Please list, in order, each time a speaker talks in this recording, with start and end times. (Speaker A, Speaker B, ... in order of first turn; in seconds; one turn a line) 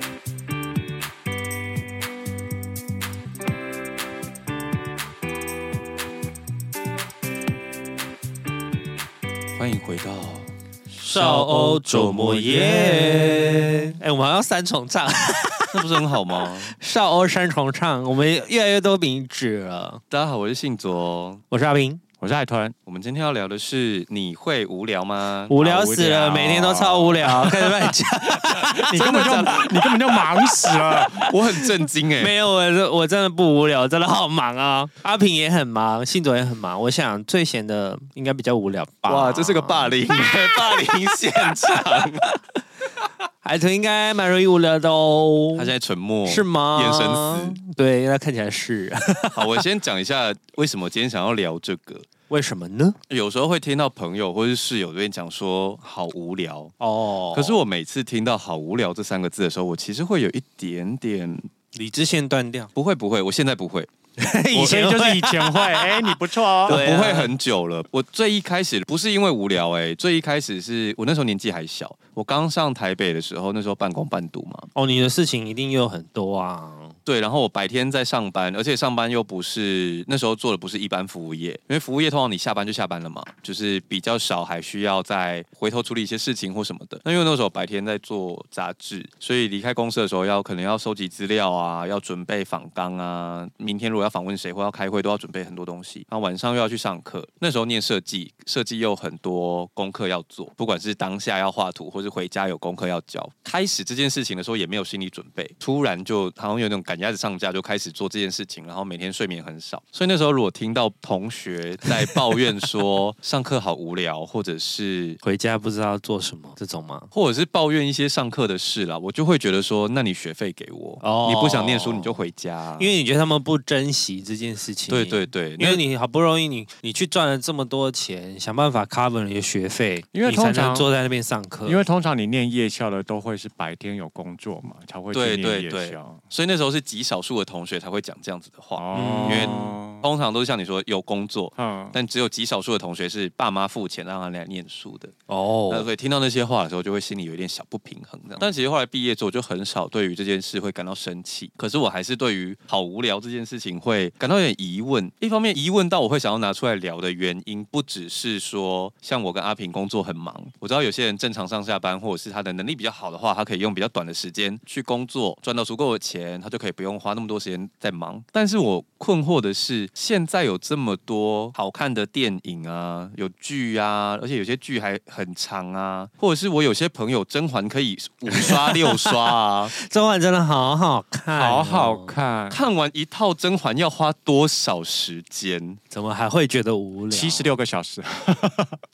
Speaker A: 9.6-10.5
Speaker B: 11.0-20.0
Speaker A: 11.0-13.7
Speaker A: 15.7-16.8
Speaker A: 20.1-21.4
Speaker B: 21.5-22.0
Speaker C: 22.2-22.8
Speaker A: 22.9-25.6
Speaker B: 25.5-42.3
Speaker C: 25.5-31.2
Speaker A: 28.9-29.7
Speaker A: 31.2-32.4
Speaker A: 39.1-42.3
Speaker B: 43.4-45.7
Speaker A: 45.6-47.6
Speaker B: 46.3-49.6
Speaker A: 49.3-52.1
Speaker B: 52.3-53.0
Speaker A: 53.1-56.7
Speaker B: 56.8-57.6
Speaker A: 57.3-61.5
Speaker B: 61.7-62.7
Speaker A: 62.8-63.9
Speaker B: 64.2-67.3
Speaker C: 64.5-66.8
Speaker A: 66.7-74.7
Speaker B: 74.8-77.0
Speaker A: 77.0-115.2
Speaker B: 115.2-117.1
Speaker A: 117.1-122.9
Speaker B: 121.0-122.2
Speaker B: 122.8-131.8
Speaker A: 124.9-125.8
Speaker C: 130.1-130.9
Speaker C: 131.7-136.2
Speaker A: 135.1-145.1
Speaker C: 138.8-140.0
Speaker B: 138.9-139.8
Speaker C: 141.6-142.0
Speaker B: 145.3-145.9
Speaker A: 145.7-179.7
Speaker B: 178.3-182.2
Speaker C: 181.3-182.6
Speaker A: 182.5-185.8
Speaker B: 185.9-187.5
Speaker C: 187.1-188.8